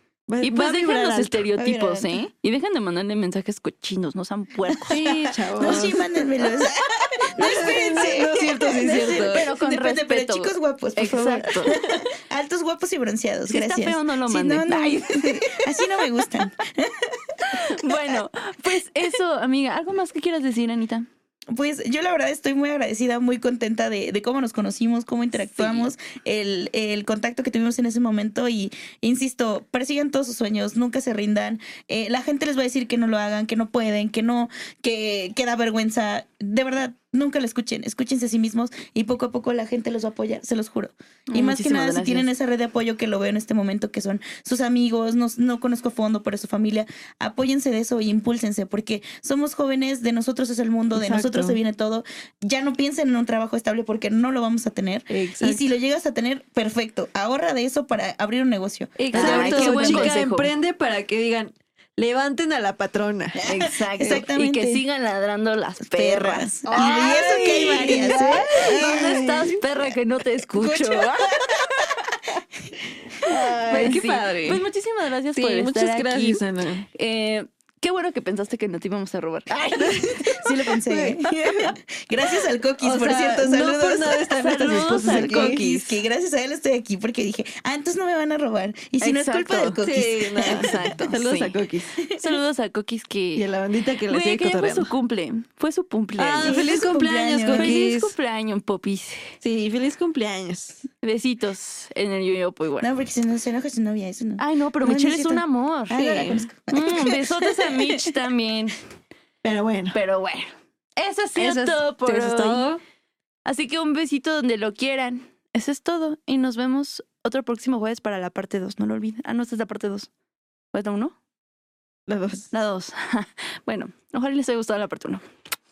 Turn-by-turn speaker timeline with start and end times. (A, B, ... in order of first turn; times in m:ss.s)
0:00.3-0:01.5 A
0:00.4-0:05.9 B
0:01.6-0:02.2 C
0:04.7-0:05.0 C
0:04.9-0:06.0 A
0:05.6-0:18.2 C
0:07.2-0:09.4 A
0:09.0-0:11.8 B
0:11.7-0:12.0 A
0:13.5-0:15.6 B
0:17.4-0:21.1 B
0:21.5-1:00.2 C
0:25.4-0:25.9 B
0:41.3-0:42.3 B
0:50.9-0:51.6 A
0:55.1-0:55.7 A
0:59.0-1:04.2 A
0:59.1-1:00.5 B
1:03.4-1:04.8 C
1:03.5-1:11.8 B
1:05.9-1:09.2 C
1:06.7-1:09.6 A
1:10.5-1:12.1 C
1:12.6-1:13.3 C
1:13.2-1:14.6 A
1:13.7-1:20.4 B
1:15.3-1:16.9 A
1:19.5-1:31.0 C
1:20.8-1:21.7 A
1:22.8-1:25.7 A
1:24.3-1:26.0 B
1:29.0-1:31.6 B
1:29.8-1:32.0 A
1:32.0-1:32.4 C
1:32.2-1:33.4 B
1:33.4-1:34.9 A
1:34.1-1:36.8 B
1:36.2-1:38.1 A
1:36.4-1:37.8 C
1:37.5-1:39.3 B
1:39.4-1:40.9 A
1:41.0-1:42.9 B
1:42.8-1:47.5 C
1:44.4-1:46.0 B
1:45.9-1:46.4 A
1:46.7-1:48.8 B
1:49.4-1:50.0 A
1:49.9-1:52.6 B
1:51.4-1:52.8 A
1:53.4-2:00.1 B
2:00.7-2:01.2 B
2:02.1-2:02.5 A
2:02.5-2:05.2 B